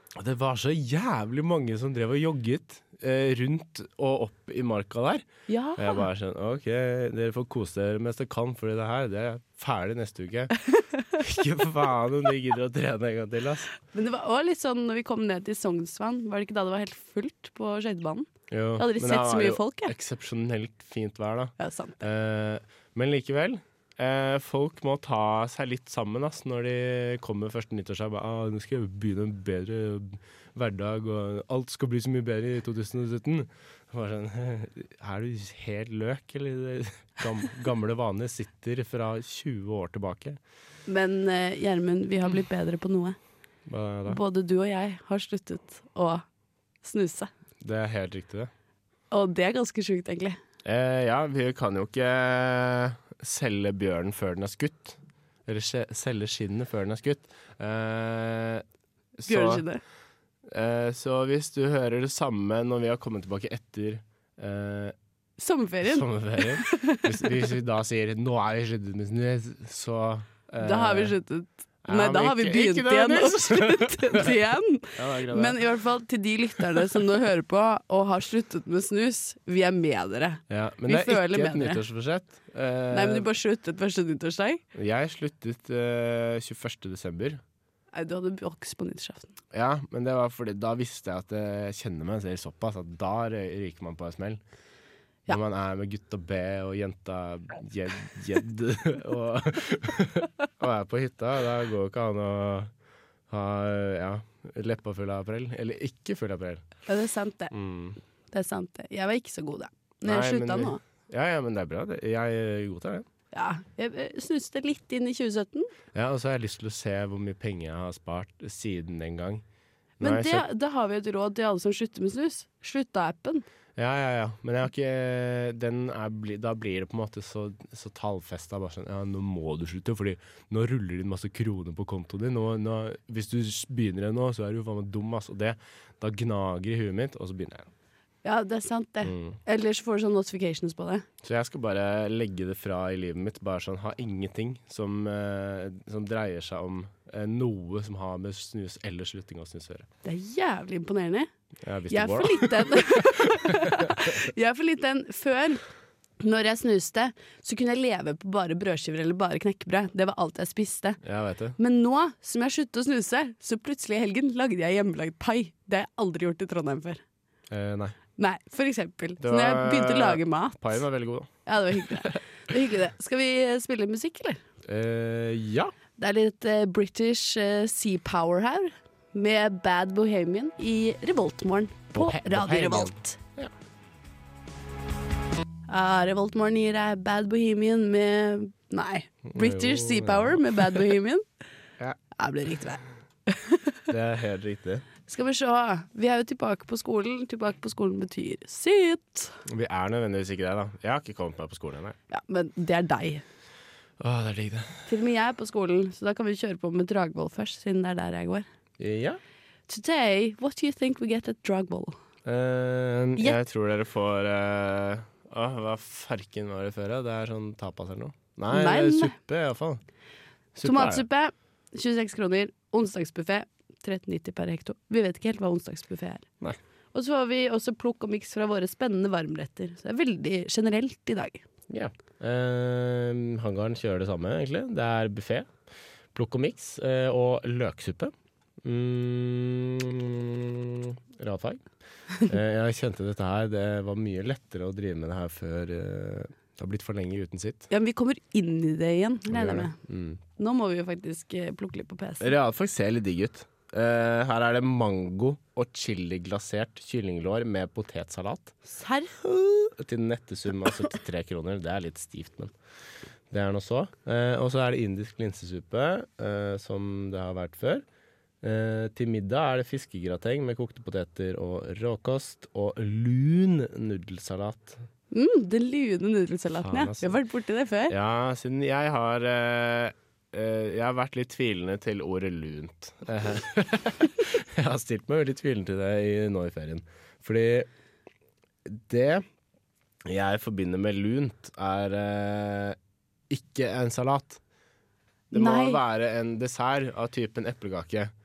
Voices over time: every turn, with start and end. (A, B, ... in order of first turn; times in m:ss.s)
0:00.2-0:05.2 A
0:05.5-0:06.0 B
0:05.8-0:10.6 A
0:10.8-0:11.0 B
0:11.1-0:13.7 A
0:13.9-0:19.9 B
0:18.5-0:40.4 A
0:21.6-0:22.0 B
0:40.9-0:43.2 B
0:43.7-0:44.2 A
0:44.1-0:46.2 B
0:46.8-0:47.3 B
0:47.6-0:48.5 A
0:49.1-0:50.4 B
0:50.6-0:58.6 A
0:59.2-0:59.6 A
0:59.3-0:59.8 B
1:00.5-1:05.0 A
1:05.4-1:07.3 B
1:05.8-1:11.2 A
1:10.6-1:21.8 B
1:11.8-1:14.4 A
1:15.0-1:15.6 A
1:20.5-1:23.3 A
1:22.9-1:24.6 B
1:24.7-1:27.4 A
1:27.9-1:29.3 B
1:29.5-1:34.4 A
1:35.3-1:42.7 A
1:43.3-1:46.7 A
1:46.9-1:47.5 B
1:47.5-1:48.0 A
1:48.3-1:50.8 B
1:50.0-1:53.1 A
1:53.3-1:55.7 B
1:55.9-1:59.4 A
2:00.0-2:00.4 A
2:00.0-2:03.5 B
2:03.8-2:17.7 A
2:18.2-2:21.1 B
2:19.0-2:19.4 A
2:21.2-2:29.9 A
2:30.0-2:31.3 B
2:31.6-2:34.2 A
2:31.9-2:35.6 B
2:36.2-2:41.0 B
2:41.0-2:41.6 A
2:41.6-2:47.0 B
2:47.5-2:48.0 A
2:48.2-2:50.8 B
2:49.2-2:52.1 A
2:51.5-2:54.4 B
2:54.6-2:55.7 A
2:56.0-3:03.2 B
3:01.9-3:03.5 A
3:05.7-3:11.2 B
3:09.3-3:10.8 A
3:12.2-3:13.8 B
3:13.9-3:14.9 A
3:15.1-3:19.4 B
3:19.5-3:22.0 A
3:22.1-3:23.2 B
3:24.0-3:24.9 A
3:24.9-3:28.5 B
3:28.8-3:29.2 A
3:29.7-3:32.0 B
3:32.2-3:39.8 A
3:38.5-3:39.2 B
3:40.6-3:41.0 A
3:40.6-3:46.3 B
3:46.9-3:51.4 B
3:51.7-3:55.5 A
3:56.1-4:01.6 A
4:02.2-4:07.7 A
4:07.7-4:09.8 B
4:09.3-4:10.2 A
4:10.4-4:12.3 B
4:12.2-4:18.6 A
4:18.7-4:19.7 B
4:19.7-4:22.5 A
4:23.3-4:27.8 A
4:28.4-4:34.8 A
4:35.1-4:37.9 B
4:36.6-4:37.2 A
4:37.9-4:47.7 A
4:48.7-4:49.2 A
4:50.0-4:52.8 A
4:53.3-4:54.4 A
4:55.3-4:55.8 B
4:55.3-4:58.1 A